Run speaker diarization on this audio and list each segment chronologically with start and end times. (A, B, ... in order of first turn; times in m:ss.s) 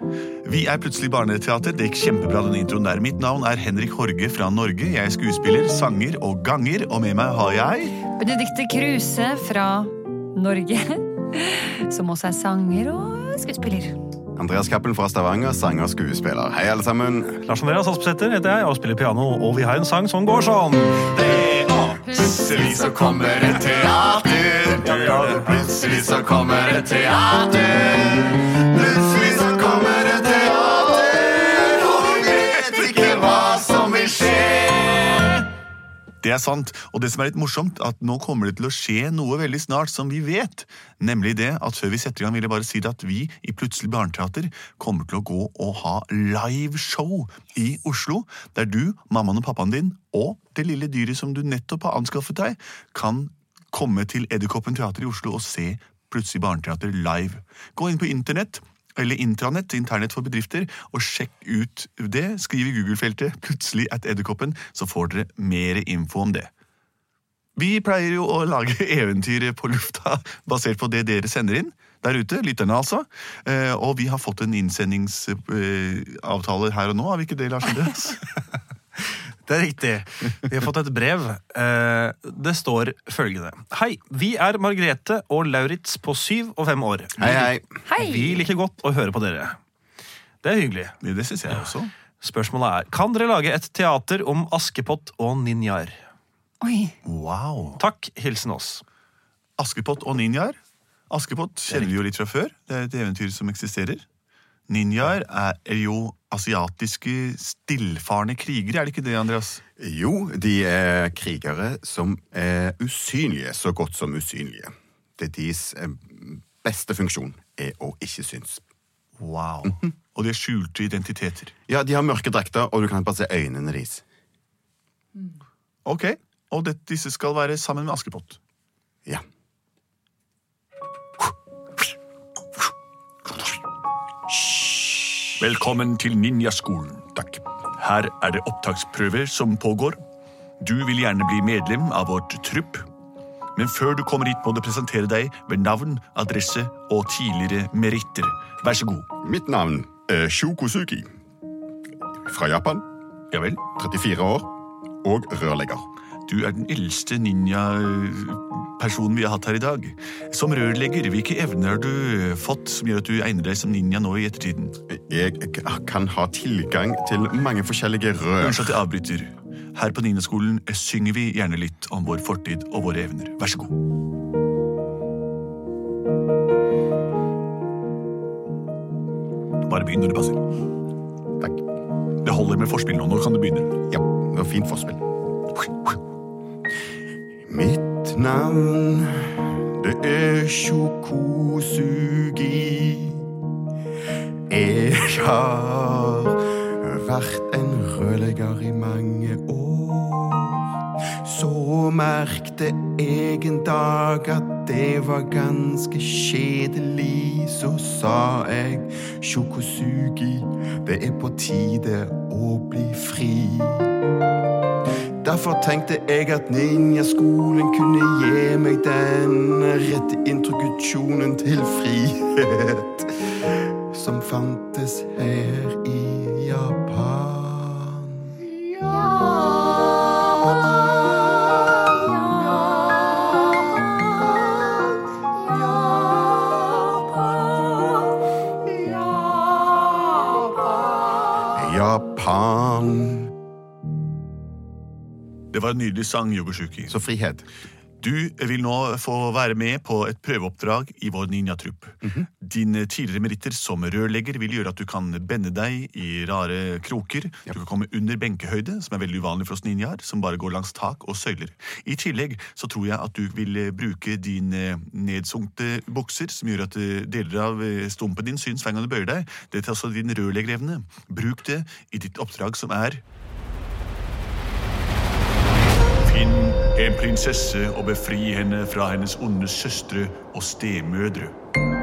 0:00.4-0:08.0 A
0:08.2-0:14.0 B
0:14.4-0:17.4 C
0:17.4-0:21.2 D
0:21.1-0:26.3 A
0:22.7-0:35.2 C
0:32.0-0:33.4 A
0:36.2-1:06.5 A
1:07.6-1:18.2 A
1:19.0-1:29.6 D
1:27.2-1:27.6 C
1:27.9-1:28.4 B
1:30.4-1:31.0 D
1:31.0-1:31.9 A
1:32.2-1:36.0 D
1:36.6-1:37.0 B
1:37.0-1:37.8 A
1:37.8-1:38.8 D
1:39.6-1:40.6 A
1:41.1-1:44.0 A
1:44.7-1:49.6 A
1:49.8-1:58.6 C
1:59.2-2:01.5 A
2:01.7-2:04.0 C
2:05.8-2:08.4 A
2:14.5-2:15.2 C
2:15.4-2:17.2 A
2:17.8-2:20.0 A
2:20.6-2:22.9 A
2:23.6-2:29.1 A
2:29.2-2:31.1 C
2:32.2-2:32.8 C
2:33.3-2:33.6 A
2:33.7-2:34.5 C
2:35.0-2:35.9 C
2:36.3-2:44.8 A
2:44.9-2:48.8 C
2:48.4-2:53.7 A
2:59.6-3:00.4 A
3:02.2-3:03.7 A
3:03.9-3:05.0 C
3:07.5-3:13.3 C
3:14.5-3:33.9 C
3:35.2-3:48.4 C
4:01.5-4:03.3 C
4:05.5-4:07.0 A
4:06.9-4:07.5 C
4:08.0-4:33.0 A
4:36.0-4:41.4 A